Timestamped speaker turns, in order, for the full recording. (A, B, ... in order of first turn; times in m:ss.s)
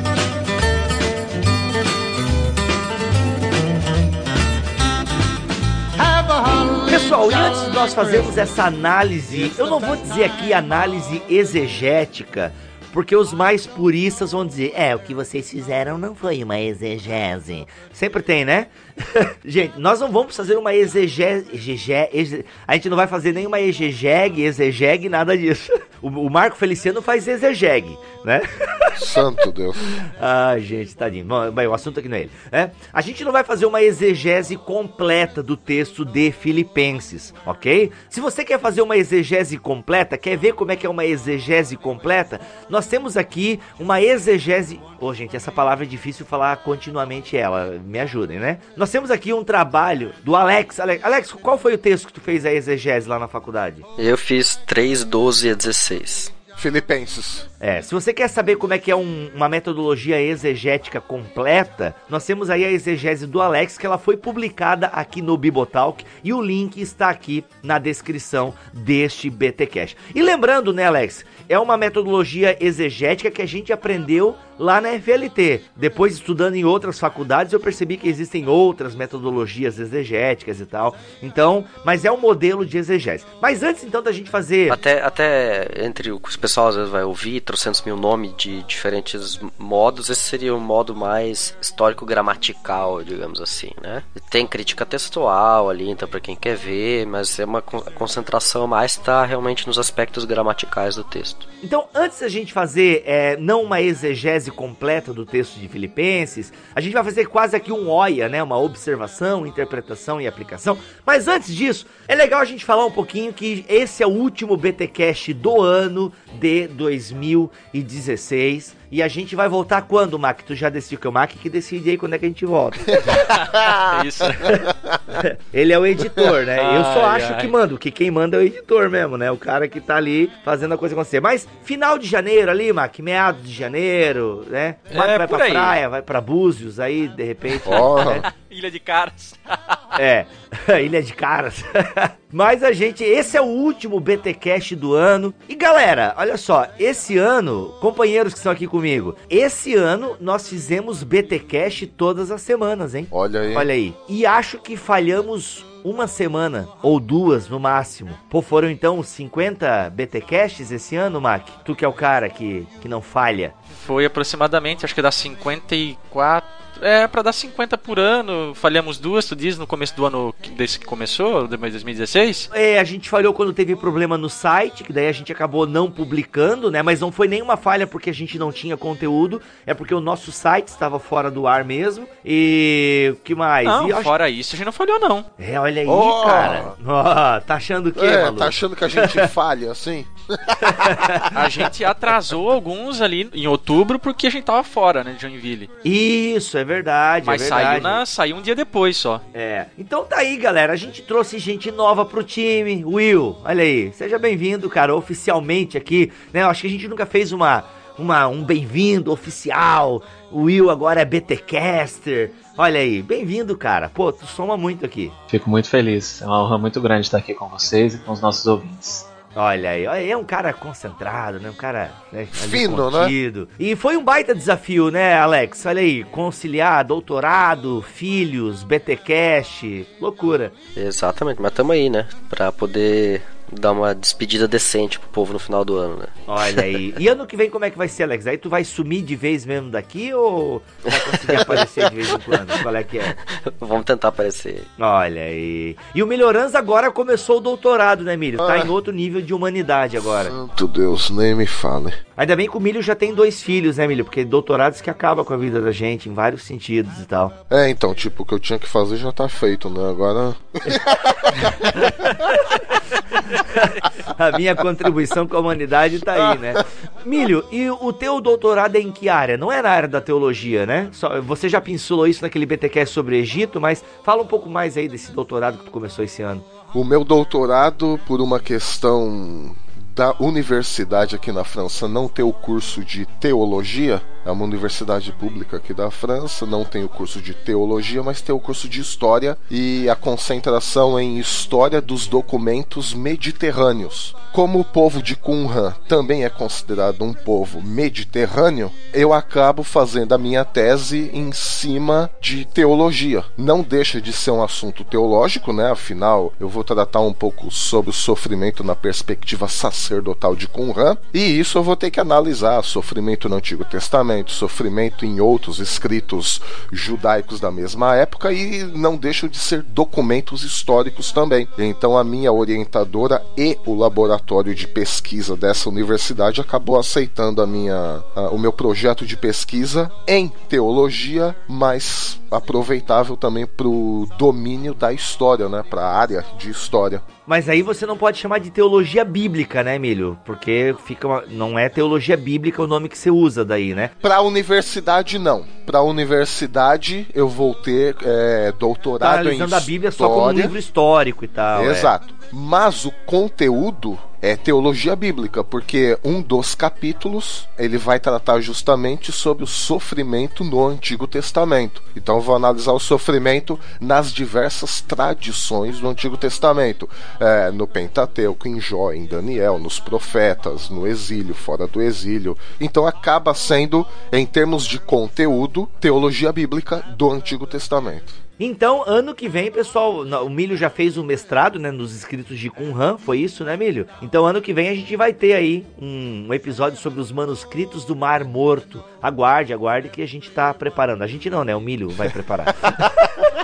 0:06.8-0:29.0 A
0:29.0-0:30.0 B
0:30.0-0:53.8 A
0:54.0-0:56.3 C
0:56.6-0:57.5 B
0:57.6-1:24.8 A
1:24.7-1:41.5 C
1:41.6-2:03.2 A
2:02.9-2:05.2 B
2:03.1-2:04.6 D
2:05.2-2:18.3 A
2:06.6-2:07.5 D
2:14.9-2:15.8 D
2:17.5-2:19.8 D
2:17.7-2:18.2 B
2:20.0-2:43.5 A
2:33.1-2:33.7 B
2:43.7-2:52.5 D
2:52.5-3:04.1 A
3:03.6-3:05.3 D
3:05.4-3:09.3 A
3:05.9-3:06.7 B
3:08.0-3:11.4 B
3:10.7-3:11.3 A
3:11.3-3:15.7 D
3:15.8-3:18.0 A
3:17.2-3:19.2 D
3:19.3-3:35.1 A
3:35.3-3:39.1 E
3:39.3-3:50.5 A
3:42.3-3:43.2 B
3:50.8-3:56.7 C
3:56.3-4:03.2 A
4:00.9-4:01.6 C
4:02.3-4:02.6 C
4:03.1-4:04.7 C
4:04.8-4:10.3 A
4:08.4-4:08.7 B
4:10.0-4:12.0 B
4:12.2-4:17.3 A
4:17.5-4:22.6 B
4:23.4-4:36.4 A
4:36.7-5:37.0 B
5:37.3-5:43.9 A
5:44.0-5:50.6 B
5:49.0-5:51.9 A
5:51.5-6:18.2 B
6:18.4-6:32.9 A